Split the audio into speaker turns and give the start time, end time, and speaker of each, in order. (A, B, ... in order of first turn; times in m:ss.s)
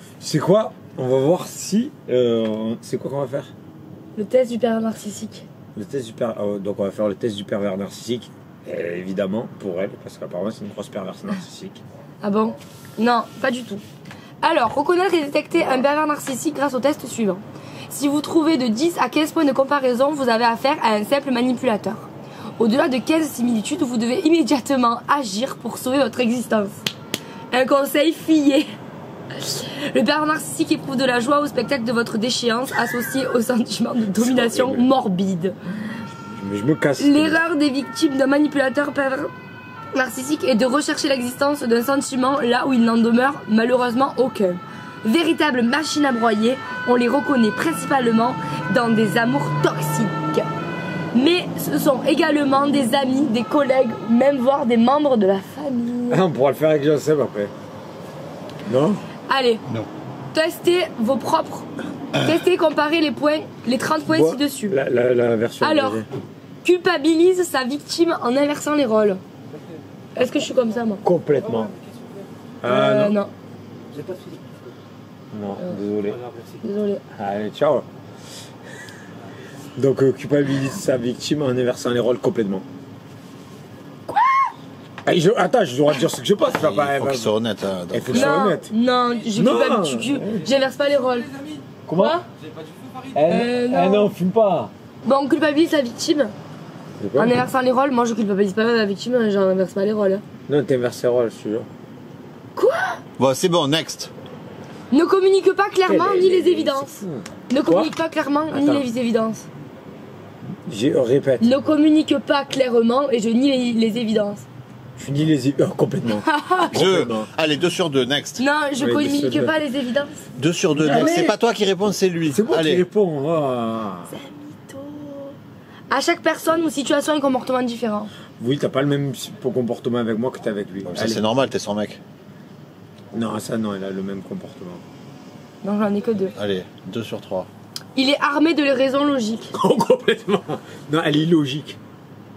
0:00.2-0:03.5 A
0:04.2-0:05.4 B
0:05.8-0:11.8 A
0:12.2-0:13.8 B
0:14.4-0:22.1 B
0:22.6-0:26.8 B
0:27.5-0:28.7 B
0:29.4-0:35.6 B
0:34.1-0:34.9 A
0:36.3-0:37.4 A
0:37.0-0:39.3 B
0:39.9-0:50.5 B
0:51.1-0:56.2 B
0:56.1-0:57.5 A
0:58.7-0:59.0 A
0:59.3-0:59.6 B
1:00.3-1:04.8 B
1:04.1-1:06.1 A
1:05.6-1:06.0 B
1:06.6-1:09.2 B
1:10.2-1:11.0 B
1:11.0-1:11.7 A
1:12.6-1:13.2 A
1:12.6-1:13.3 B
1:15.3-1:16.2 A
1:16.6-1:17.0 B
1:17.2-1:17.8 A
1:19.8-1:22.7 A
1:24.1-1:24.5 B
1:25.0-1:27.3 A
1:26.4-1:28.4 C
1:27.9-1:28.7 A
1:28.1-1:31.4 B
1:29.3-1:30.5 A
1:31.9-1:32.2 A
1:32.0-1:32.2 B
1:33.1-1:34.7 A
1:33.3-1:34.1 B
1:35.0-1:36.3 B
1:37.0-1:37.4 A
1:37.2-1:40.2 B
1:40.5-1:41.7 A
1:42.6-1:43.0 B
1:43.2-1:44.1 C
1:44.9-1:46.9 B
1:45.8-1:47.9 A
1:47.5-1:49.5 B
1:48.5-1:48.8 A
1:50.7-1:51.5 A
1:51.4-1:54.4 B
1:55.0-1:57.3 A
1:56.2-1:56.7 B
1:56.7-1:58.4 C
1:58.4-2:00.2 B
1:58.8-1:59.5 A
2:00.4-2:02.8 C
2:00.8-2:01.4 A
2:00.8-2:01.2 B
2:02.3-2:04.2 A
2:04.1-2:05.4 B
2:05.9-2:08.1 B
2:08.4-2:11.2 A
2:10.9-2:12.0 C
2:13.1-2:14.8 A
2:15.6-2:16.4 B
2:16.4-2:17.5 C
2:18.0-2:19.5 B
2:19.5-2:21.8 A